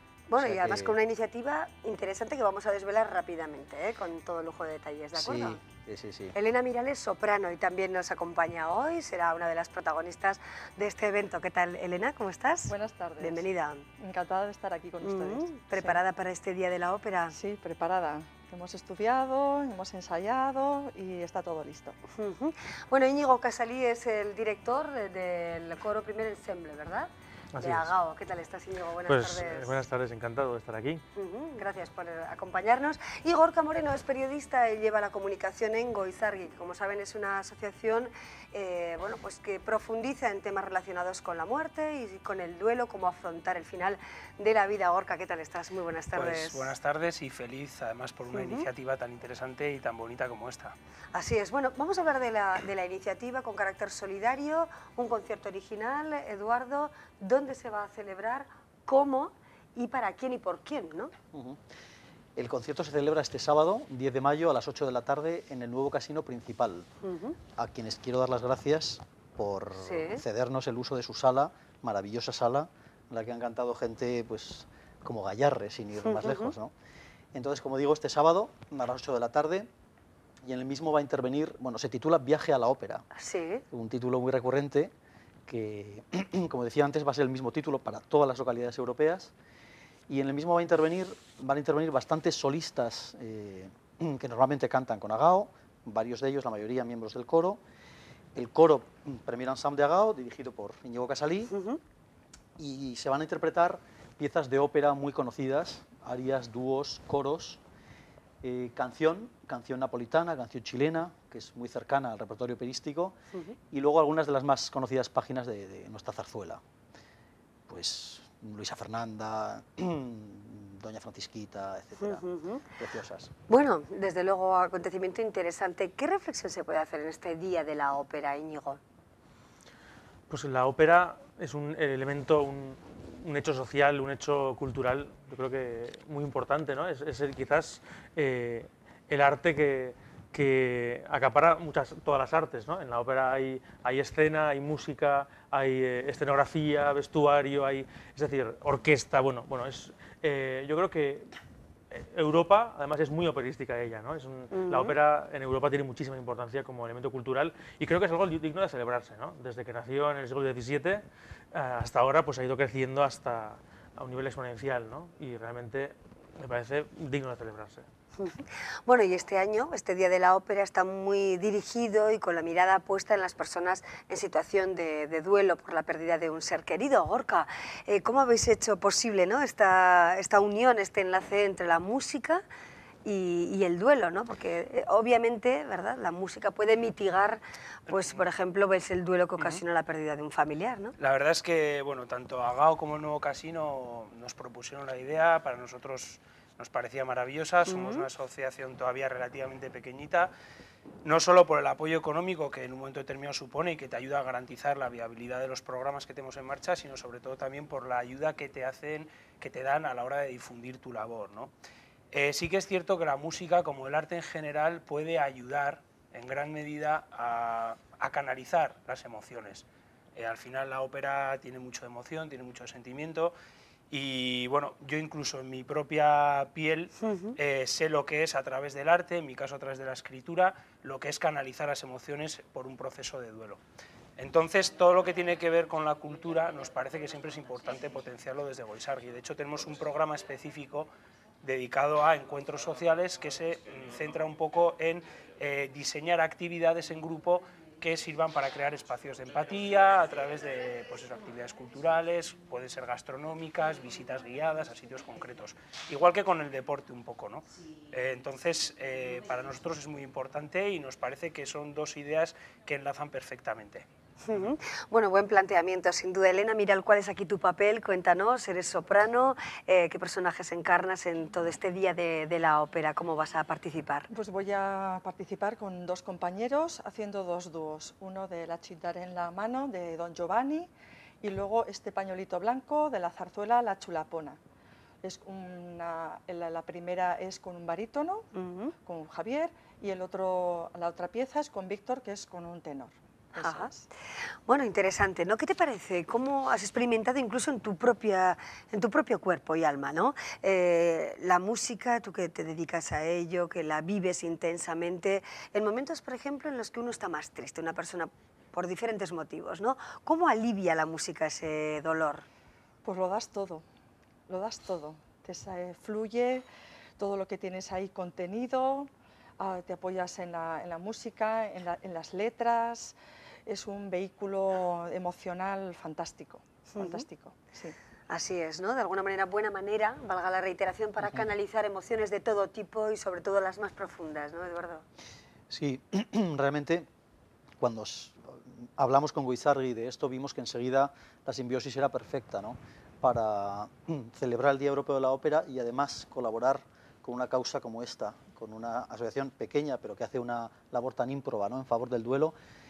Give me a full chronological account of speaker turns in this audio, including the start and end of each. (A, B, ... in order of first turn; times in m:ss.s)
0:00.3-0:05.6 A
0:00.4-0:01.0 B
0:05.2-0:06.4 B
0:06.4-0:13.9 A
0:12.7-0:13.4 C
0:14.0-0:16.0 C
0:15.0-0:17.4 A
0:17.3-0:22.0 C
0:22.2-0:29.8 A
0:27.5-0:27.9 D
0:29.1-0:31.0 D
0:31.2-0:46.7 A
0:46.1-0:50.8 E
0:48.3-0:48.7 A
0:51.1-1:01.1 A
1:01.3-1:01.6 B
1:02.4-1:06.9 B
1:07.0-1:07.4 A
1:07.6-1:16.7 B
1:09.8-1:10.2 A
1:16.0-1:16.5 A
1:17.3-1:19.7 B
1:20.4-1:23.0 B
1:23.2-1:23.6 A
1:23.7-1:24.9 B
1:25.5-1:29.3 B
1:30.1-1:37.6 B
1:38.4-1:41.5 B
1:41.5-1:41.8 A
1:42.6-1:47.6 B
1:48.4-1:53.2 B
1:53.7-1:56.6 B
1:57.7-2:03.3 B
2:02.0-2:02.7 A
2:03.5-2:08.8 A
2:10.3-2:31.3 D
2:31.9-2:47.9 D
2:34.5-2:35.0 A
2:48.2-3:02.4 A
3:03.0-3:11.0 A
3:07.9-3:08.2 E
3:11.0-3:20.3 E
3:17.7-3:18.0 A
3:21.0-3:31.5 E
3:32.1-3:43.4 E
3:43.9-3:53.6 E
3:47.0-3:47.3 A
3:54.2-4:00.9 E
4:01.4-4:24.5 E
4:24.3-4:34.1 A
4:34.1-4:40.7 C
4:41.2-4:44.4 C
4:45.0-4:48.3 C
4:48.3-4:48.7 A
4:48.8-4:53.9 C
4:53.4-4:53.7 A
4:54.5-5:12.2 A
5:12.8-5:13.6 C
5:14.3-5:16.5 C
5:17.0-5:23.0 C
5:23.5-5:27.8 C
5:26.7-5:27.1 A
5:28.1-5:34.8 A
5:35.5-5:36.9 B
5:37.6-5:52.4 B